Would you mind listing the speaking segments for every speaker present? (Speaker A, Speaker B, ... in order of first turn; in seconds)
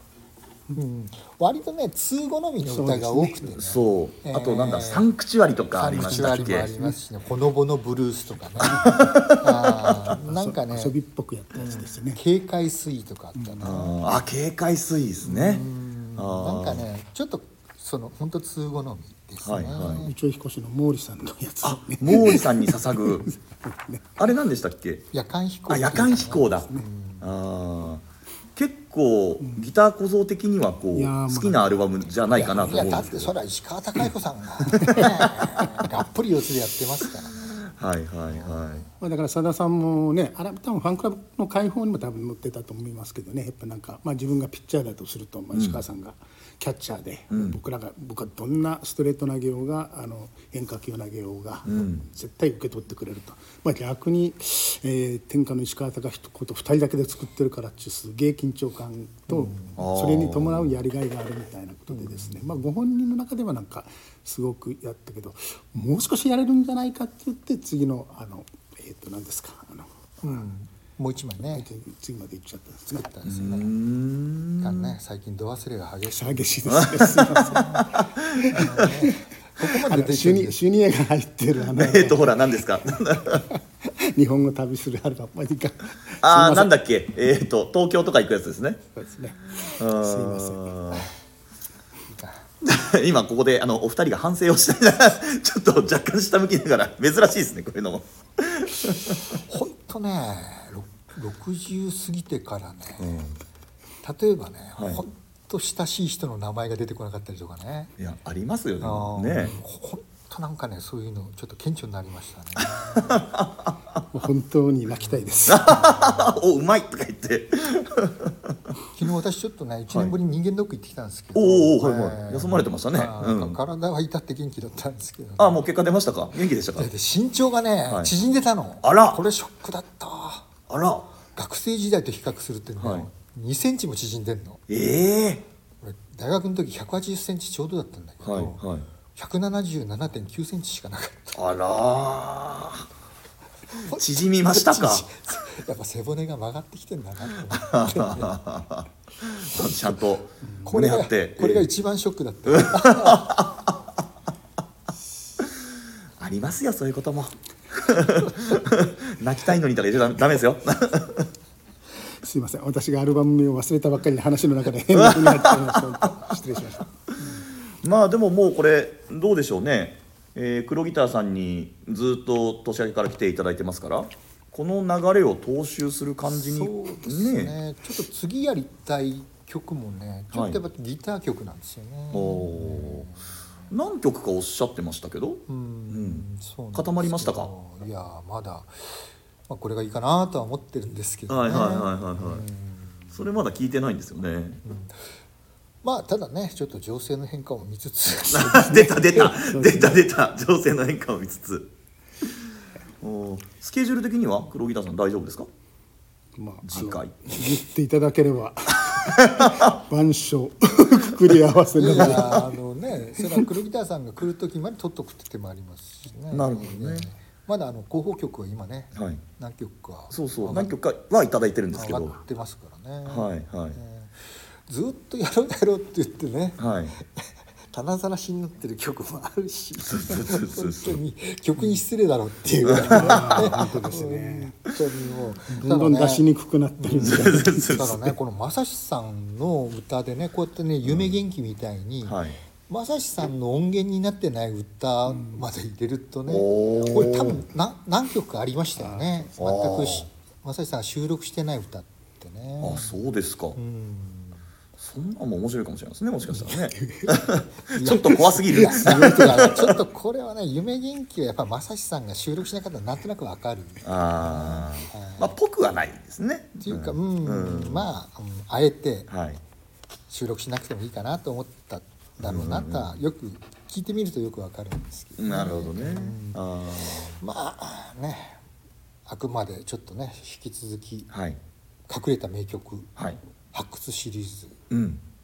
Speaker A: 0.7-5.1, 5.7-10.9, 11.5-14.0, 15.2-20.1, 25.1-27.3, 32.4-37.6, 59.3-59.7, 61.9-62.5, 70.2-71.7, 72.9-73.7, 74.6-76.8, 77.3-77.9, 78.5-80.6, 92.1-92.4, 99.4-103.2, 104.0-107.9, 108.8-113.2, 115.0-116.3, 118.9-125.6, 126.7-130.5, 131.3-134.6, 135.8-141.4, 143.8-148.3, 150.7-153.4, 176.3-183.3, 185.5-193.3, 194.6-195.0, 195.8-199.3, 211.8-220.7, 221.7-253.0, 253.5-254.4, 257.7-265.3, 266.6-269.1, 270.1-276.4, 277.2-278.4, 279.1-281.1, 281.9-282.9, 283.5-284.6
Speaker B: 2.6-3.7, 5.9-7.0, 8.6-9.2, 10.1-12.2, 13.4-13.8, 19.8-24.1, 26.4-26.8, 30.9-33.1, 34.6-35.9, 39.0-70.5, 71.5-73.1, 76.0-86.7, 88.9-91.0, 114.1-115.8, 162.2-166.9, 199.3-200.0, 206.3-212.6, 213.2-213.4, 232.9-234.6, 235.5-237.8, 248.8-249.3, 256.3-257.2, 258.0-259.4
Speaker C: 3.6-6.7, 8.6-10.2, 13.6-16.9, 19.4-20.1, 21.6-23.3, 24.2-25.1, 25.7-33.3, 37.7-38.9, 45.5-45.8, 47.3-47.6, 51.6-52.1, 59.8-60.7, 73.2-75.0, 76.7-78.9, 81.7-83.5, 86.2-88.8, 89.6-91.1, 92.6-99.3, 103.0-103.4, 104.8-105.0, 108.0-109.6, 112.8-114.0, 115.5-118.6, 121.3-123.6, 125.4-126.9, 127.9-128.1, 128.8-129.2, 130.7-131.1, 132.8-133.1, 134.7-135.5, 138.2-138.9, 141.3-142.8, 143.9-145.1, 147.5-151.7, 152.5-153.8, 156.2-161.3, 164.9-166.4, 167.4-177.5, 180.3-180.6, 182.1-183.1, 183.7-187.5, 191.3-192.4, 193.1-194.6, 198.2-201.7, 203.0-205.5, 206.6-207.6, 208.8-209.8, 216.3-217.1, 218.9-219.2, 220.1-222.2, 223.1-223.8, 226.6-226.9, 229.8-231.0, 232.7-233.6, 237.0-238.1, 240.8-241.2, 242.0-242.4, 246.3-247.4, 249.4-250.1, 252.6-253.6, 254.8-259.8, 263.8-267.9, 269.1-269.4, 272.2-273.0, 275.2-277.2, 281.1-281.4, 284.7-285.0